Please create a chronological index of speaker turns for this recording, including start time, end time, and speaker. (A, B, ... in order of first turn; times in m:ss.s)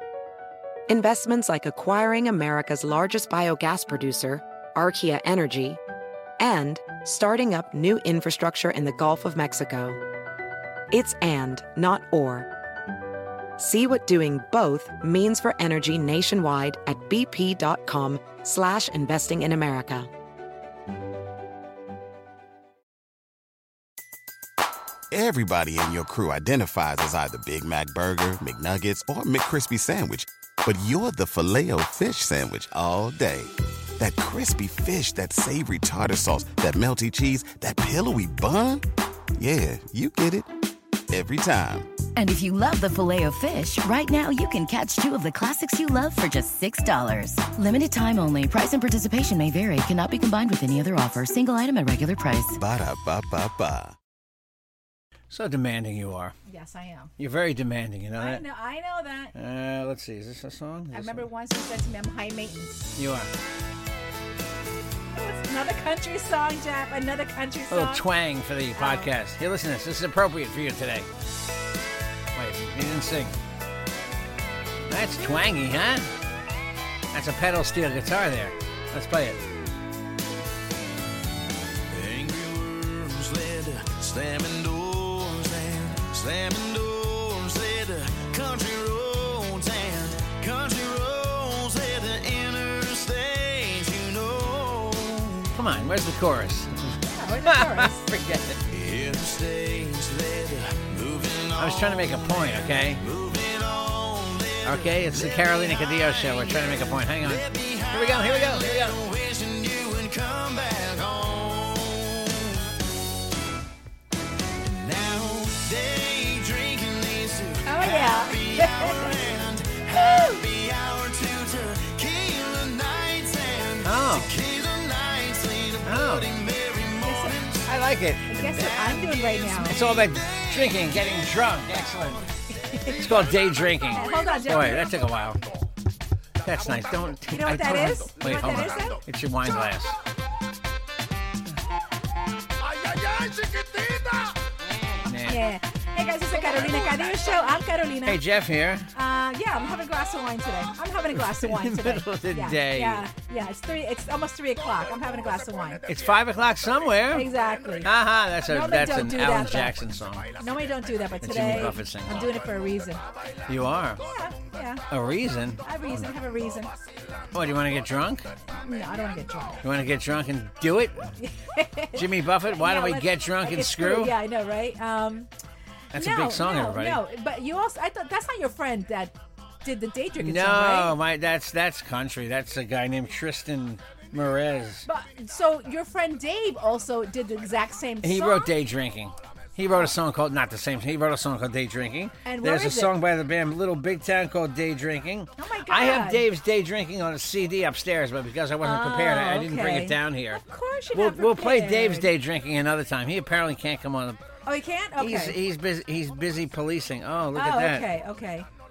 0:00.9-0:05.8 A
0:06.4-0:10.0 A
0:10.9-0:12.5 A
0:13.6-0:20.1 A
0:25.1-0:38.8 B
0:39.4-0:40.5 B
0:41.1-0:41.9 B
0:42.2-0:52.6 C
0:52.6-0:53.9 B
0:55.3-0:56.3 D
0:56.4-0:57.1 E
0:57.2-0:58.4 D
0:58.2-0:59.3 E
0:59.3-1:01.2 D
1:00.9-1:03.0 E
1:03.0-1:03.3 D
1:05.1-1:08.0 E
1:07.7-1:11.1 D
1:08.7-1:09.1 E
1:12.3-1:13.3 D
1:14.9-1:16.1 D
1:17.1-1:19.4 D
1:21.9-1:35.5 F
1:35.6-1:38.6 D
1:37.0-1:38.1 E
1:38.7-1:52.7 F
1:41.6-1:43.0 D
1:44.6-1:49.0 D
1:54.6-2:07.7 F
1:57.6-1:59.2 E
1:59.9-2:00.4 E
2:03.8-2:04.3 D
2:05.8-2:06.3 D
2:07.0-2:07.4 E
2:07.6-2:12.3 D
2:08.3-2:09.8 E
2:09.1-2:11.3 F
2:12.6-2:13.0 E
2:12.8-2:15.4 D
2:13.9-2:14.9 E
2:16.4-2:20.0 D
2:17.3-2:19.0 E
2:22.9-2:24.3 F
2:25.0-2:25.4 D
2:25.2-2:28.2 E
2:28.0-2:28.9 D
2:28.9-2:35.9 E
2:31.4-2:33.0 D
2:35.9-2:37.3 D
2:37.1-2:37.9 E
2:37.8-2:40.4 D
2:38.4-2:39.8 E
2:40.4-2:43.0 E
2:41.2-2:42.4 D
2:43.5-2:44.0 D
2:44.0-2:44.8 E
2:44.9-2:46.0 D
2:45.6-2:46.7 E
2:47.3-2:48.3 D
2:48.6-2:49.6 E
2:49.6-2:51.1 D
2:51.2-2:55.3 E
2:52.0-2:54.1 D
2:55.9-2:57.0 D
2:55.9-3:01.0 E
3:00.2-3:04.8 D
3:04.8-3:08.5 E
3:08.0-3:20.4 D
3:12.2-3:12.9 E
3:15.4-3:16.2 E
3:18.6-3:22.1 E
3:20.9-3:24.2 D
3:24.4-3:25.4 E
3:25.0-3:27.9 D
3:27.3-3:28.5 E